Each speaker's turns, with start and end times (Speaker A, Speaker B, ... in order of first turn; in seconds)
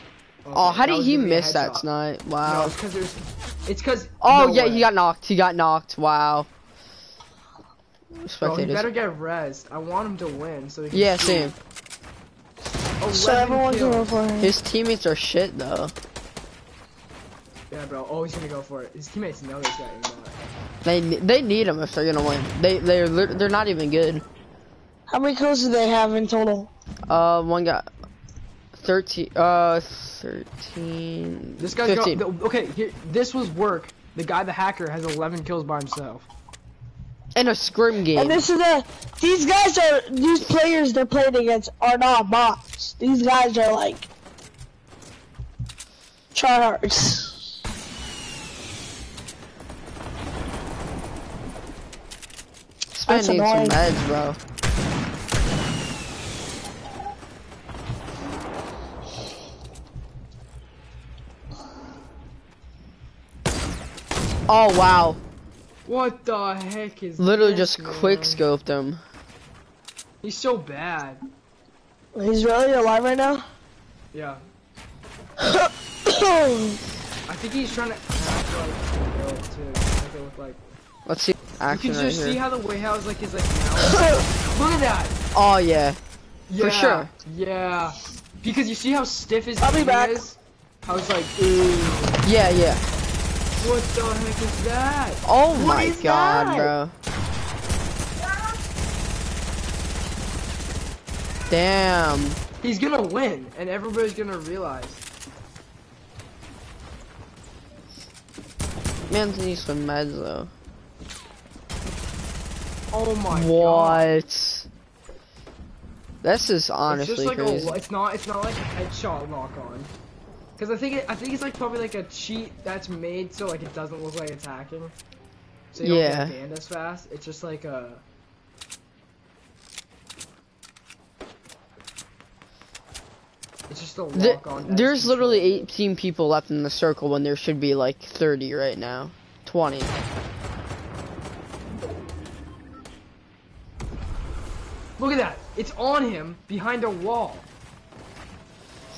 Speaker A: 0.4-1.9, 2.4-4.9, 8.4-11.6, 13.0-14.1, 17.7-20.4, 31.6-36.3, 65.8-68.5, 70.2-71.2, 74.1-74.4, 77.2-80.6, 81.7-85.2, 86.5-92.3, 93.6-96.7, 102.6-105.0, 112.9-114.2, 116.9-119.9, 120.6-124.9, 125.7-128.0, 133.7-135.7, 145.0-147.5
Speaker B: 0.5-2.7, 4.2-6.5, 8.2-8.9, 10.9-11.6, 14.4-15.9, 20.8-24.2, 27.1-27.9, 28.7-32.2, 37.3-38.4, 52.9-54.4, 64.5-65.2, 67.2-69.0, 81.0-82.4, 85.3-86.0, 86.6-87.1, 92.2-92.8, 95.2-96.9, 101.5-102.4, 109.1-110.5, 113.3-114.7, 116.2-117.8, 125.8-126.3, 134.1-139.9
Speaker C: 13.1-14.5, 25.1-26.7, 38.1-44.1, 46.3-47.3, 53.0-53.8, 72.1-73.4, 75.4-76.8, 83.9-84.2, 89.6-90.2